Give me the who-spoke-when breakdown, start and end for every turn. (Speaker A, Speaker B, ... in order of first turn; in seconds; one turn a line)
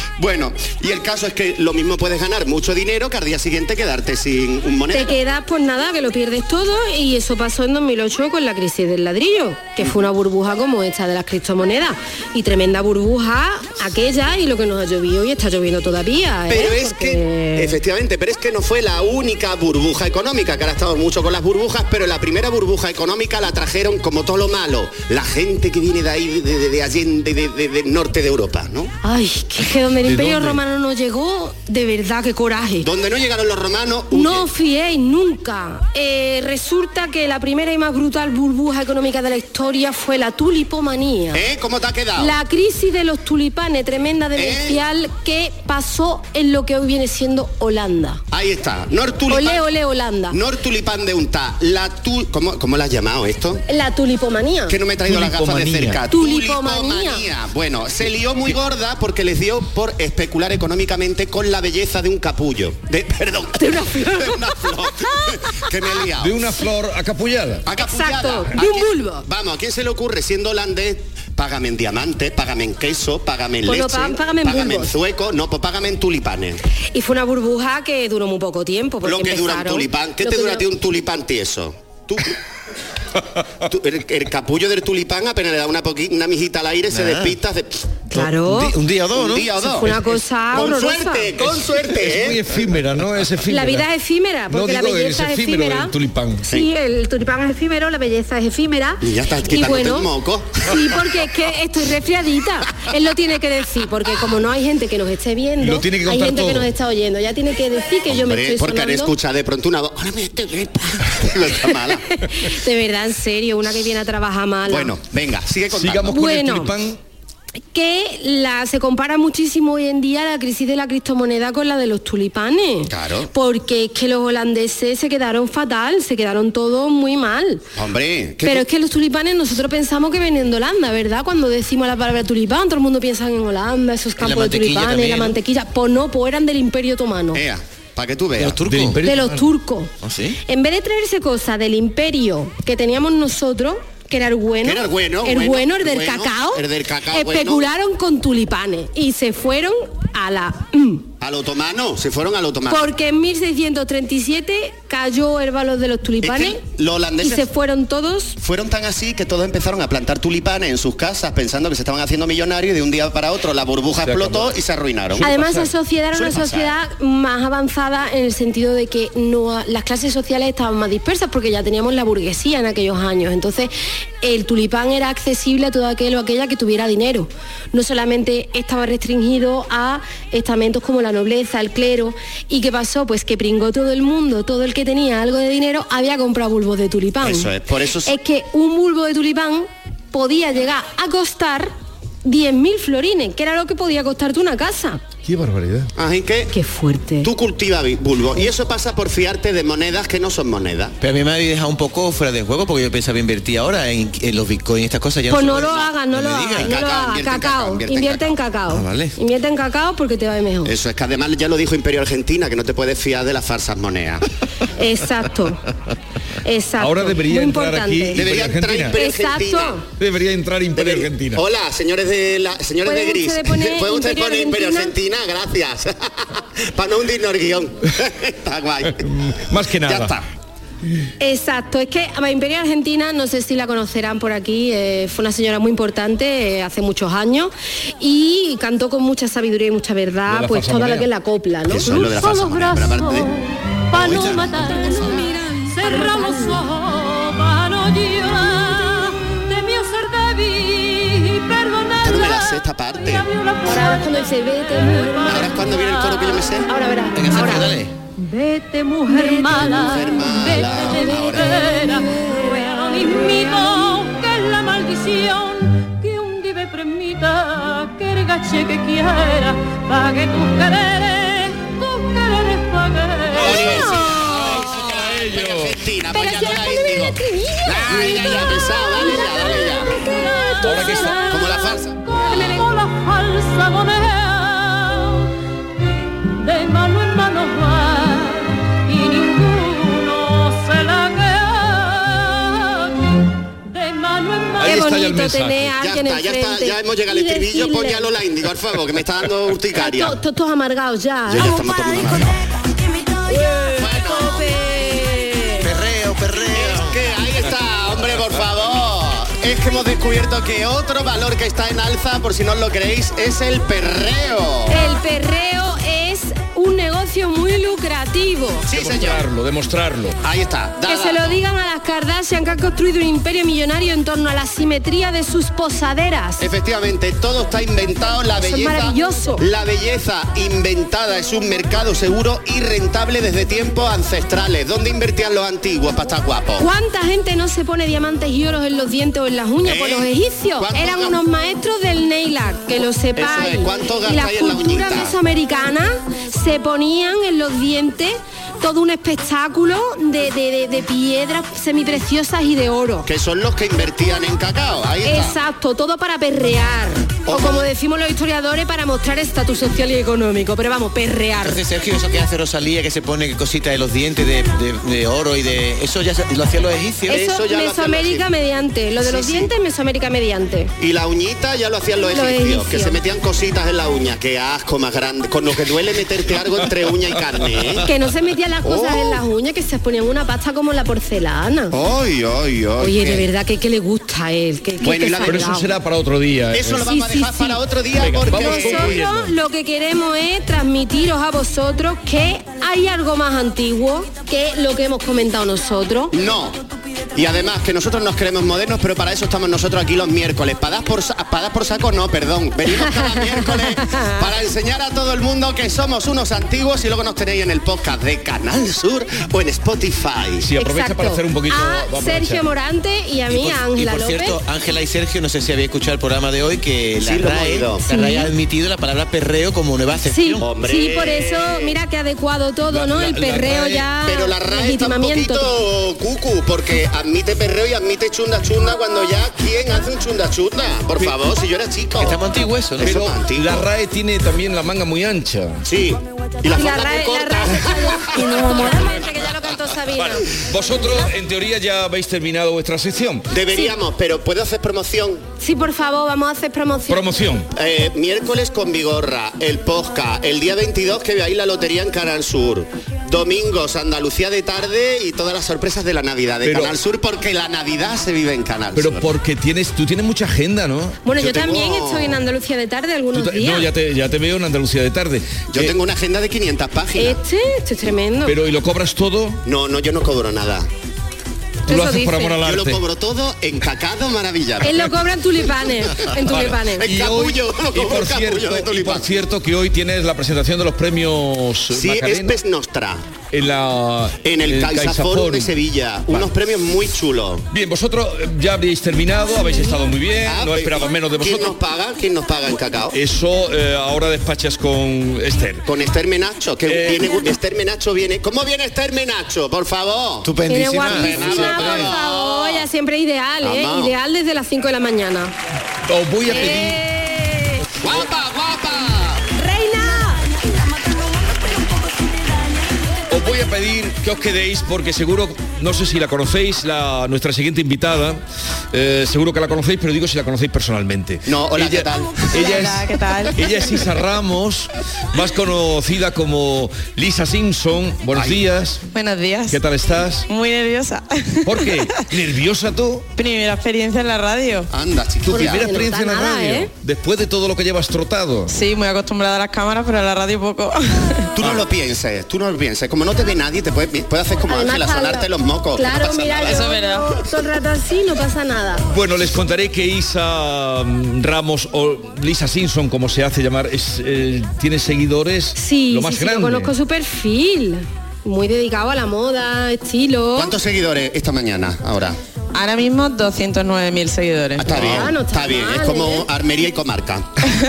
Speaker A: 0.2-5.2
Speaker B: 4.9-17.8
Speaker A: 16.5-28.9
Speaker B: 29.0-32.9
Speaker C: 30.0-30.6
Speaker A: 32.8-34.5
Speaker B: 34.1-41.4
Speaker A: 41.3-42.3
Speaker B: 42.2-48.2
Speaker A: 44.4-44.8
Speaker A: 48.3-49.6
Speaker B: 49.3-50.4
Speaker A: 50.3-53.6
Speaker B: 53.7-54.8
Speaker A: 54.7-66.4
Speaker C: 55.1-56.0
Speaker B: 56.1-57.2
Speaker B: 63.6-64.4
Speaker C: 66.2-67.7
Speaker A: 67.7-76.6
Speaker B: 67.8-69.2
Speaker B: 73.7-74.9
Speaker B: 76.9-80.6
Speaker A: 79.0-82.4
Speaker A: 83.6-87.8
Speaker D: 86.9-87.4
Speaker B: 88.1-88.8
Speaker D: 88.1-89.6
Speaker A: 89.1-92.4
Speaker B: 89.6-91.3
Speaker C: 91.4-93.9
Speaker B: 93.5-95.9
Speaker C: 94.5-96.5
Speaker B: 96.5-100.1
Speaker A: 99.0-100.8
Speaker B: 100.6-109.1
Speaker C: 105.6-106.7
Speaker A: 108.1-112.0
Speaker B: 112.2-114.9
Speaker A: 114.7-116.2
Speaker C: 115.7-117.0
Speaker B: 116.1-116.7
Speaker B: 117.7-127.6
Speaker A: 122.9-123.3
Speaker A: 127.8-128.7
Speaker B: 128.4-137.4
Speaker D: 134.2-135.4
Speaker A: 137.3-138.6
Speaker D: 138.4-139.0
Speaker C: 138.6-139.5
Speaker B: 139.0-139.9
Speaker D: 140.0-140.4
Speaker B: 140.5-151.1
Speaker A: 144.6-147.7
Speaker A: 151.2-152.9
Speaker B: 152.7-156.6
Speaker A: 156.2-157.5
Speaker B: 157.2-158.4
Speaker A: 158.4-165.3
Speaker C: 164.0-164.6
Speaker C: 165.2-165.7
Speaker B: 165.2-173.7
Speaker A: 166.1-166.8
Speaker B: 174.2-187.5
Speaker A: 187.2-188.1
Speaker B: 188.1-191.7
Speaker B: 192.2-195.0
Speaker A: 196.0-196.5
Speaker B: 196.5-197.3
Speaker A: 197.2-200.9
Speaker D: 201.0-206.7
Speaker B: 205.3-210.7
Speaker A: 206.6-208.3
Speaker D: 208.7-209.2
Speaker A: 210.7-214.2
Speaker B: 214.8-215.6
Speaker B: 216.4-218.2
Speaker C: 216.8-219.0
Speaker A: 218.2-219.8
Speaker B: 219.0-219.8
Speaker C: 220.0-221.4
Speaker A: 220.8-229.0
Speaker B: 222.8-224.9
Speaker C: 229.0-230.2
Speaker A: 229.8-230.2
Speaker B: 231.2-242.0
Speaker C: 240.3-241.1
Speaker A: 241.7-243.3
Speaker E: 241.8-256.4
Speaker A: 244.0-244.5
Speaker D: 244.0-244.5
Speaker B: 244.8-246.6
Speaker A: 252.0-253.3
Speaker B: 253.7-255.5
Speaker A: 255.3-256.7
Speaker B: 256.7-257.7
Speaker D: 257.1-257.9
Speaker E: 258.2-273.8
Speaker B: 259.1-259.9
Speaker A: 259.7-261.6
Speaker B: 261.1-263.7
Speaker A: 273.4-279.9
Speaker C: 273.4-275.8
Speaker B: 273.4-274.6
Speaker B: 276.1-281.6
Speaker E: 280.0-285.3
Speaker C: 280.6-281.2
Speaker A: 281.3-282.0
Speaker B: 282.3-282.6
Speaker E: 286.3-294.9
Speaker C: 294.6-295.8
Speaker B: 294.6-298.1
Speaker A: 295.8-300.2
Speaker B: 299.8-302.0
Speaker A: 301.3-302.3
Speaker B: 303.3-305.7
Speaker A: 303.8-304.5
Speaker D: 305.6-307.0
Speaker A: 306.5-314.8
Speaker B: 314.7-318.7
Speaker A: 318.7-319.2
Speaker C: 318.7-320.2
Speaker A: 320.2-321.4
Speaker B: 320.9-326.4
Speaker A: 326.4-336.7
Speaker B: 328.4-329.4
Speaker B: 336.6-353.1
Speaker A: 339.6-341.2
Speaker A: 343.2-345.1
Speaker A: 353.1-355.4
Speaker B: 355.1-361.6
Speaker A: 357.3-357.7
Speaker D: 361.4-367.3
Speaker B: 367.1-370.7
Speaker A: 367.1-368.3
Speaker A: 369.0-369.5
Speaker A: 370.8-377.9
Speaker B: 372.1-373.0
Speaker B: 377.8-381.8
Speaker A: 378.6-379.2
Speaker A: 381.7-383.2
Speaker B: 382.8-385.7
Speaker A: 384.8-385.5
Speaker C: 385.2-386.9
Speaker A: 386.5-389.0
Speaker B: 386.9-387.6
Speaker C: 388.0-389.3
Speaker B: 388.3-396.1
Speaker A: 396.1-396.6
Speaker A: 397.1-410.5
Speaker B: 403.4-404.2
Speaker C: 410.4-412.5
Speaker B: 410.6-414.4
Speaker D: 413.3-420.5
Speaker A: 417.0-418.1
Speaker B: 417.9-418.3
Speaker B: 420.1-425.5
Speaker A: 420.4-421.8
Speaker C: 422.7-423.9
Speaker A: 424.0-432.2
Speaker D: 432.0-433.0
Speaker A: 432.8-433.7
Speaker C: 432.8-435.6
Speaker A: 435.7-438.4
Speaker B: 436.5-440.3
Speaker C: 440.0-443.3
Speaker A: 443.3-445.2
Speaker B: 445.4-447.0
Speaker C: 446.9-447.5
Speaker A: 447.6-459.1
Speaker C: 456.4-456.8
Speaker C: 458.8-461.0
Speaker B: 461.0-463.7
Speaker A: 461.2-462.2
Speaker C: 463.1-465.8
Speaker A: 465.5-467.2
Speaker B: 467.0-468.4
Speaker C: 468.3-469.4
Speaker A: 469.4-470.7
Speaker B: 471.7-472.4
Speaker C: 471.7-472.8
Speaker A: 472.4-474.9
Speaker B: 474.6-476.9
Speaker C: 476.2-482.4
Speaker A: 476.8-479.1
Speaker A: 481.7-483.0
Speaker C: 483.3-485.6
Speaker A: 484.2-487.4
Speaker C: 487.5-491.6
Speaker A: 490.3-492.9
Speaker C: 492.9-495.7
Speaker A: 495.7-500.3
Speaker C: 496.7-497.3
Speaker D: 500.2-501.9
Speaker B: 500.5-505.3
Speaker A: 500.9-502.7
Speaker A: 503.4-503.9
Speaker C: 505.9-506.8
Speaker B: 506.3-507.6
Speaker A: 507.8-509.3
Speaker B: 509.4-510.2
Speaker C: 513.1-518.2
Speaker C: 518.7-528.8
Speaker A: 521.3-522.7
Speaker F: 522.3-523.4
Speaker A: 528.2-528.4
Speaker F: 528.9-529.6
Speaker C: 529.5-530.3
Speaker F: 530.3-532.0
Speaker C: 531.5-533.1
Speaker F: 533.2-534.7
Speaker A: 534.7-535.7
Speaker C: 535.3-538.6
Speaker B: 535.3-536.7
Speaker F: 538.5-541.3
Speaker A: 541.4-546.8
Speaker C: 541.4-541.6
Speaker B: 544.5-548.9
Speaker F: 546.5-547.1
Speaker C: 548.9-556.7
Speaker B: 555.6-560.5
Speaker A: 560.4-562.2
Speaker F: 562.5-564.7
Speaker A: 564.6-567.3
Speaker B: 564.7-566.3